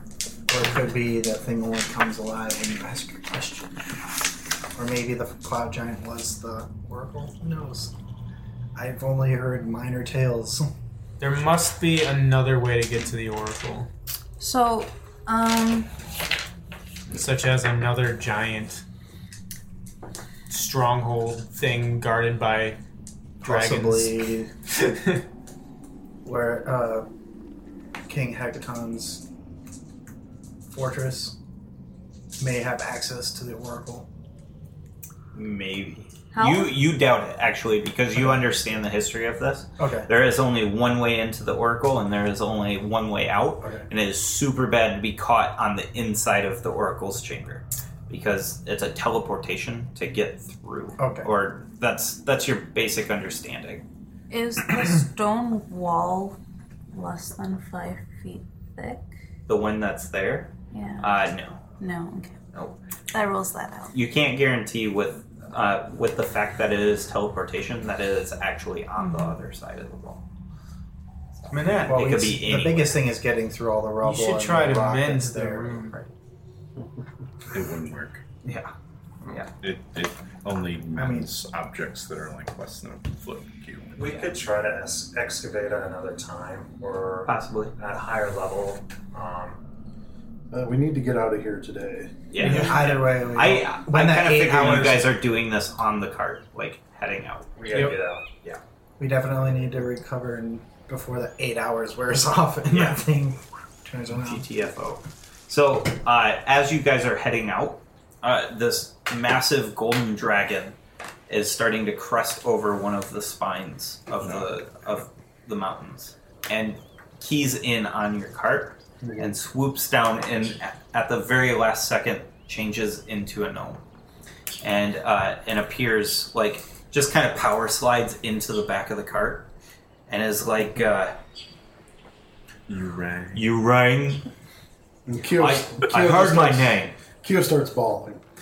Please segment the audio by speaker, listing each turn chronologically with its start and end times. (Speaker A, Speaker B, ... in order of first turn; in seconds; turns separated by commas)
Speaker A: 0.5-3.8, Speaker A: 4.7-7.9, Speaker A: 8.8-10.7, Speaker B: 11.2-13.9, Speaker C: 14.4-15.9, Speaker B: 17.1-18.8, Speaker B: 20.5-22.8, Speaker B: 23.4-25.2, Speaker A: 23.4-24.5, Speaker A: 26.2-27.1, Speaker A: 28.1-29.2, Speaker A: 30.7-31.3, Speaker A: 32.4-34.1, Speaker D: 35.3-53.8, Speaker C: 36.3-36.8, Speaker A: 39.8-40.1, Speaker A: 43.6-43.9, Speaker A: 51.0-51.3, Speaker C: 54.3-56.4, Speaker C: 56.9-59.0, Speaker D: 59.5-61.6, Speaker C: 60.7-61.2, Speaker C: 61.8-62.4, Speaker C: 63.1-63.9, Speaker D: 63.9-70.2, Speaker C: 69.0-69.4, Speaker D: 71.4-73.0, Speaker B: 71.5-72.2, Speaker A: 71.9-76.0, Speaker B: 74.0-76.1, Speaker E: 77.5-78.2, Speaker D: 78.4-78.7, Speaker E: 79.6-83.9, Speaker A: 80.9-81.3, Speaker F: 83.9-89.6, Speaker D: 84.0-84.3, Speaker D: 87.3-87.7, Speaker G: 90.5-92.1, Speaker D: 92.3-97.6, Speaker B: 92.4-92.8, Speaker A: 92.4-95.2, Speaker F: 97.6-98.2, Speaker B: 97.7-98.0, Speaker A: 99.0-104.4, Speaker D: 102.7-103.0, Speaker D: 104.1-110.8, Speaker D: 111.3-123.8, Speaker E: 114.2-114.5, Speaker G: 119.0-119.3, Speaker D: 124.6-129.5, Speaker D: 130.1-131.2, Speaker E: 132.7-133.4, Speaker D: 133.3-134.2, Speaker G: 135.1-138.2, Speaker D: 135.4-136.9